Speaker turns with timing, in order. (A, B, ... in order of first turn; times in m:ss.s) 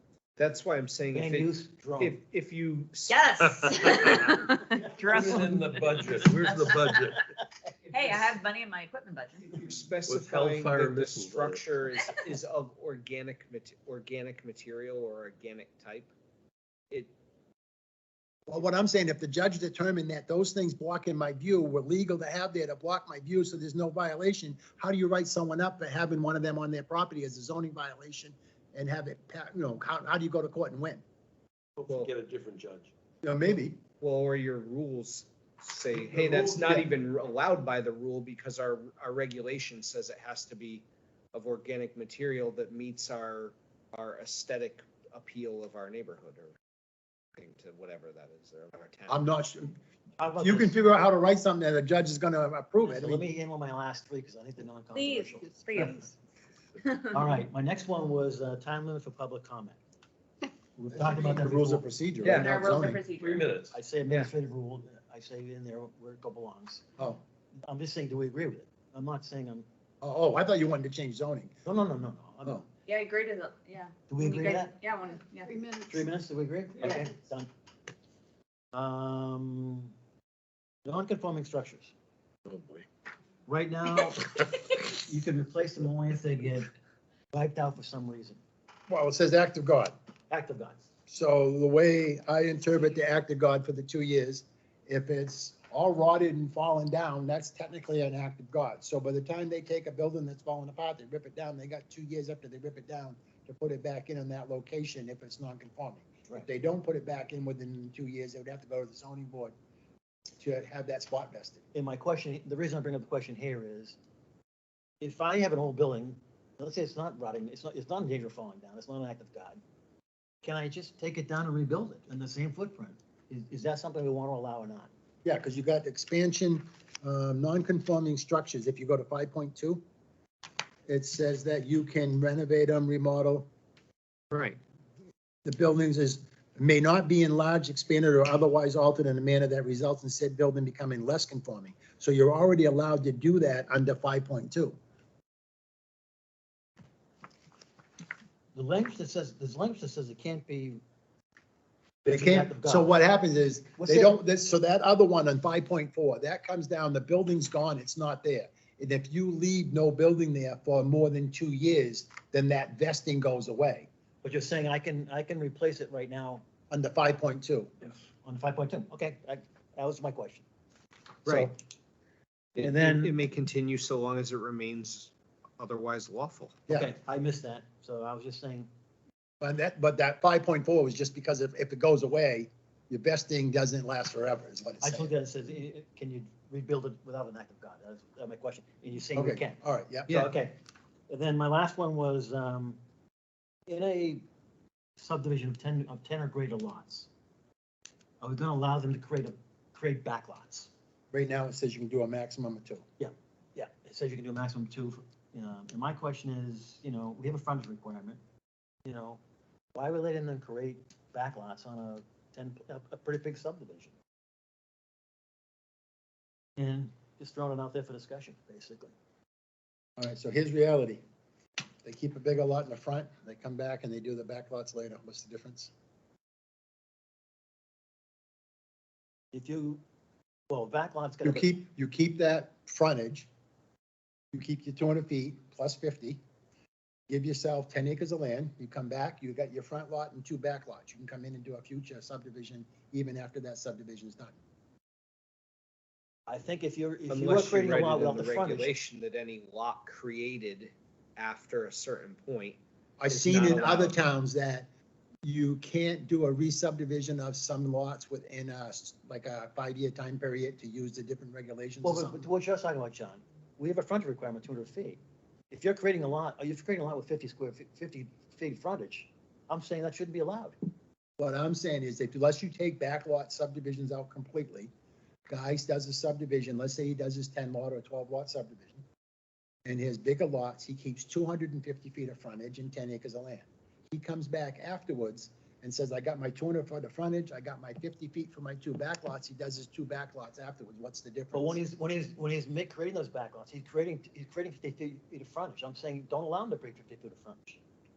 0:00.4-0:03.8 A
0:01.1-0:02.2 B
0:03.1-0:05.6 C
0:03.7-0:04.4 D
0:05.0-0:07.2 D
0:07.9-0:09.7 C
0:09.5-0:16.1 A
0:10.0-0:11.8 D
0:18.5-0:31.0 E
0:31.8-0:32.9 D
0:31.9-0:32.1 A
0:33.2-0:33.8 E
0:34.0-0:46.6 A
0:35.9-0:36.8 D
0:36.6-0:36.9 E
0:47.4-0:49.3 A
0:49.1-0:49.8 E
0:50.2-0:50.8 B
0:50.4-0:53.2 E
0:52.8-0:56.1 B
0:55.0-0:56.1 C
0:56.8-0:57.1 C
0:57.1-0:59.8 B
1:00.8-1:02.5 B
1:00.9-1:03.0 E
1:02.3-1:03.5 C
1:03.2-1:03.8 D
1:03.7-1:06.9 B
1:07.7-1:09.7 B
1:10.0-1:11.5 E
1:11.6-1:12.7 B
1:12.9-1:15.7 C
1:14.1-1:14.7 B
1:15.9-1:17.5 B
1:18.7-1:19.9 B
1:20.8-1:21.9 B
1:22.5-1:22.9 D
1:23.5-1:24.3 B
1:24.8-1:26.7 B
1:27.3-1:28.4 B
1:28.9-1:29.9 E
1:30.3-1:30.8 B
1:31.1-1:49.5 E
1:50.4-1:51.6 E
1:51.7-1:54.0 B
1:55.0-1:59.6 B
2:00.4-2:04.9 B
2:05.2-2:09.8 E
2:10.9-2:13.5 E
2:14.3-2:14.6 A
2:15.4-2:24.8 E
2:28.5-2:30.8 B
2:32.1-2:32.9 B
2:32.1-2:43.9 E
2:33.8-2:34.2 B
2:44.2-2:46.5 B
2:46.7-2:47.7 E
2:48.2-2:50.4 B
2:51.2-2:51.5 A
2:51.3-2:51.5 E
2:52.6-2:56.6 A
2:52.6-2:53.2 B
2:56.7-2:56.9 E
2:56.7-2:58.7 B
2:59.4-3:05.1 E
3:04.8-3:10.6 B
3:09.2-3:10.2 E
3:11.1-3:12.8 B
3:13.7-3:14.2 B
3:15.0-3:17.1 B
3:18.2-3:20.7 B
3:21.1-3:22.8 E
3:23.0-3:28.2 B
3:28.8-3:29.2 B
3:29.8-3:34.0 B
3:36.6-3:38.9 B
3:40.0-3:41.0 E
3:41.8-3:45.7 E
3:49.3-3:49.8 B
3:50.5-3:51.5 B
3:51.2-3:53.3 E
3:54.3-3:56.2 E
3:57.1-4:04.4 E
4:06.3-4:08.7 B
4:07.1-4:12.6 A
4:13.0-4:14.7 E
4:13.1-4:14.0 B
4:13.3-4:13.9 A
4:15.2-4:22.3 E
4:21.8-4:30.6 B
4:31.2-4:34.7 E
4:35.3-4:38.8 E
4:39.7-4:51.6 E
4:51.3-4:57.6 B